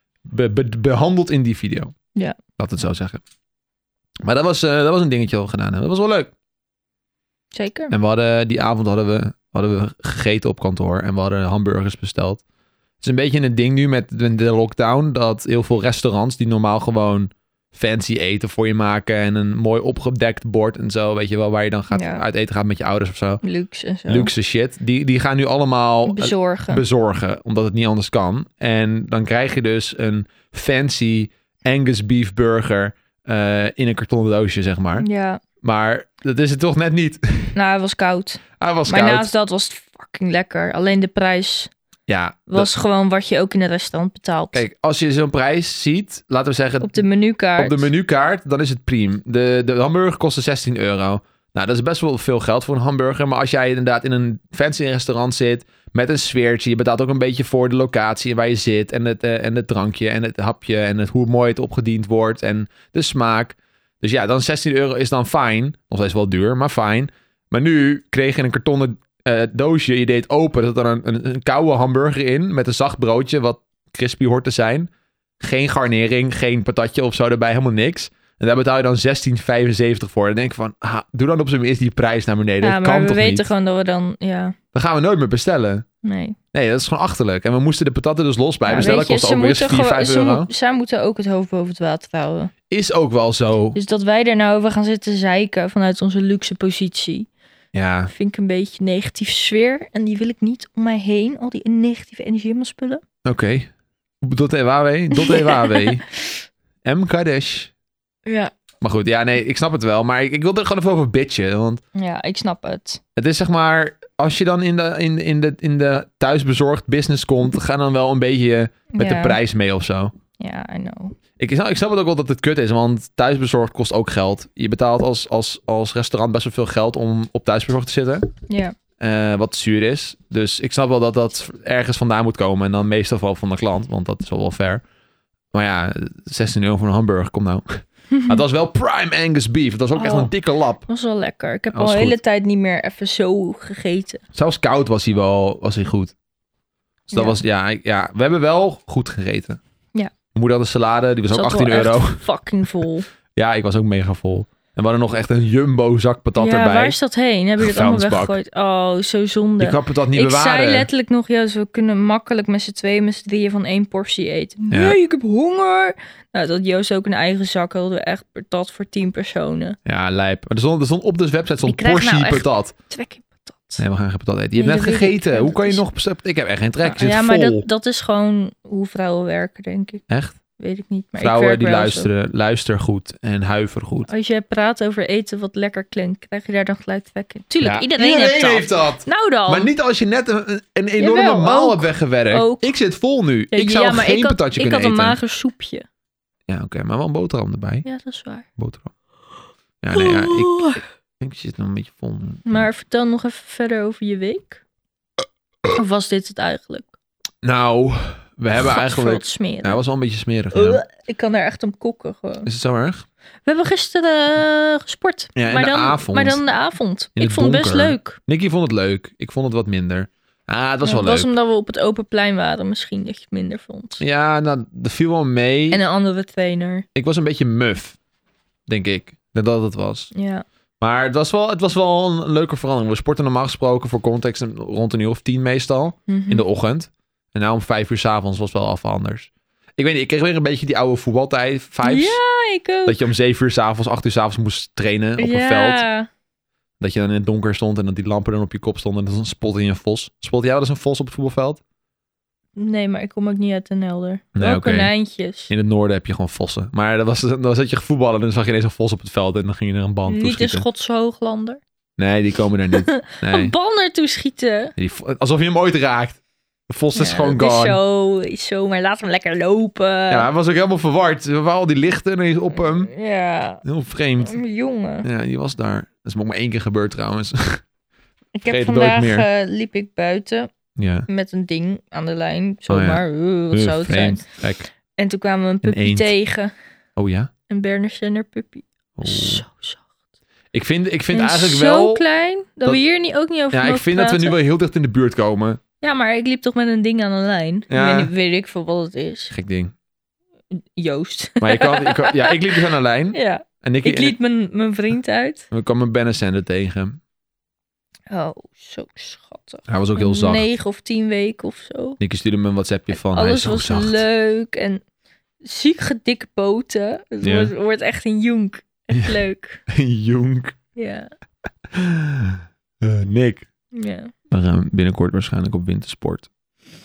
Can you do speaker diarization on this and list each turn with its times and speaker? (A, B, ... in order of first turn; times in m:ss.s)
0:00.3-0:02.0 A
0:02.6-0:03.2 A
0:04.2-0:06.3 A
0:07.5-0:07.9 B
0:07.9-0:12.4 A
0:13.0-0:23.4 A
0:21.9-0:22.2 B
0:23.4-0:24.3 B
0:24.1-0:35.1 A
0:26.1-0:26.8 B
0:35.0-0:35.4 B
0:35.6-0:37.6 A
0:37.6-0:41.7 B
0:38.6-0:39.3 A
0:42.1-0:42.7 A
0:42.5-0:44.6 B
0:44.5-0:47.0 A
0:46.8-0:47.9 B
0:47.6-1:23.5 A
1:22.6-1:24.6 B
1:24.7-1:25.9 A
1:26.0-1:26.4 B
1:26.5-1:30.5 A
1:28.6-1:32.5 B
1:32.7-1:33.8 A
1:33.8-1:37.3 B
1:37.7-1:38.1 A
1:38.1-1:43.0 B
1:43.2-1:43.7 A
1:44.2-1:46.0 A
1:45.1-1:46.0 B
1:46.8-1:47.7 A
1:48.2-1:48.5 B
1:48.8-1:51.8 A
1:52.0-1:53.0 B
1:53.2-2:00.1 A
1:58.9-1:59.4 B
2:00.4-2:01.2 B
2:01.4-2:08.3 A
2:08.5-2:08.8 B
2:09.0-2:14.8 A
2:15.5-2:20.8 A
2:18.1-2:18.4 B
2:20.0-2:20.3 B
2:20.9-2:24.2 B
2:21.7-2:22.2 A
2:24.3-2:26.1 A
2:27.1-2:29.6 A
2:27.1-2:27.4 B
2:30.3-2:32.2 A
2:31.3-2:33.1 B
2:33.4-2:37.0 A
2:36.4-2:49.8 B
2:37.6-2:38.4 A
2:39.6-2:40.9 A
2:44.7-2:45.0 A
2:49.8-2:52.7 A
2:51.6-2:53.8 B
2:53.8-2:57.6 A
2:54.6-2:55.8 B
2:56.8-3:00.0 B
3:00.1-3:00.4 A
3:00.6-3:02.1 B
3:01.2-3:04.1 A
3:04.1-3:09.7 B
3:07.6-3:15.2 A
3:11.0-3:12.8 B
3:13.5-3:15.9 B
3:16.5-3:17.9 A
3:17.8-3:18.5 B
3:18.6-3:18.9 A
3:19.8-3:22.7 A
3:19.9-3:20.8 B
3:22.5-3:24.6 B
3:25.7-3:26.9 B
3:27.4-3:30.8 A
3:28.6-3:29.8 B
3:30.5-3:32.5 B
3:32.4-3:33.1 A
3:33.5-3:38.2 B
3:35.4-3:36.4 A
3:37.2-3:41.3 A
3:40.8-3:44.0 B
3:44.0-3:45.8 A
3:45.7-3:46.9 B
3:47.0-3:48.0 A
3:48.7-3:50.1 A
3:50.1-3:50.4 B
3:50.8-4:02.2 A
3:56.1-3:56.4 B
4:01.8-4:03.0 B
4:02.9-4:05.8 A
4:05.2-4:06.1 B
4:06.8-4:11.6 A
4:12.6-4:15.5 B
4:14.4-4:14.9 A
4:15.5-4:20.6 A
4:20.1-4:21.6 B
4:22.0-4:23.5 A
4:22.8-4:24.7 B
4:24.8-4:27.8 A
4:27.0-4:30.3 B
4:30.1-4:32.9 A
4:32.6-4:33.6 B
4:33.6-4:34.4 A
4:34.2-4:35.1 B
4:35.0-4:37.6 A
4:38.4-4:40.5 B
4:38.5-4:39.3 A
4:40.8-4:41.1 A
4:41.1-4:44.3 B
4:42.7-4:44.7 A
4:45.0-4:46.5 B
4:45.6-4:46.1 A
4:47.0-4:47.3 A
4:47.5-4:49.9 B
4:49.0-4:49.4 A
4:50.5-4:52.0 A
4:51.1-4:54.4 B
4:53.5-4:55.6 A
4:55.8-4:59.3 B
4:57.7-4:58.1 A
4:59.3-4:59.7 A
5:00.8-5:05.4 B
5:01.4-5:04.1 A
5:05.5-5:07.0 A
5:08.1-5:12.0 B
5:09.7-5:10.5 A
5:12.0-5:14.0 A
5:12.9-5:14.8 B
5:15.4-5:19.6 B
5:17.2-5:17.5 A
5:19.7-5:20.6 A
5:20.8-5:21.1 B
5:21.7-5:23.5 A
5:23.7-5:24.1 B
5:24.3-5:26.3 A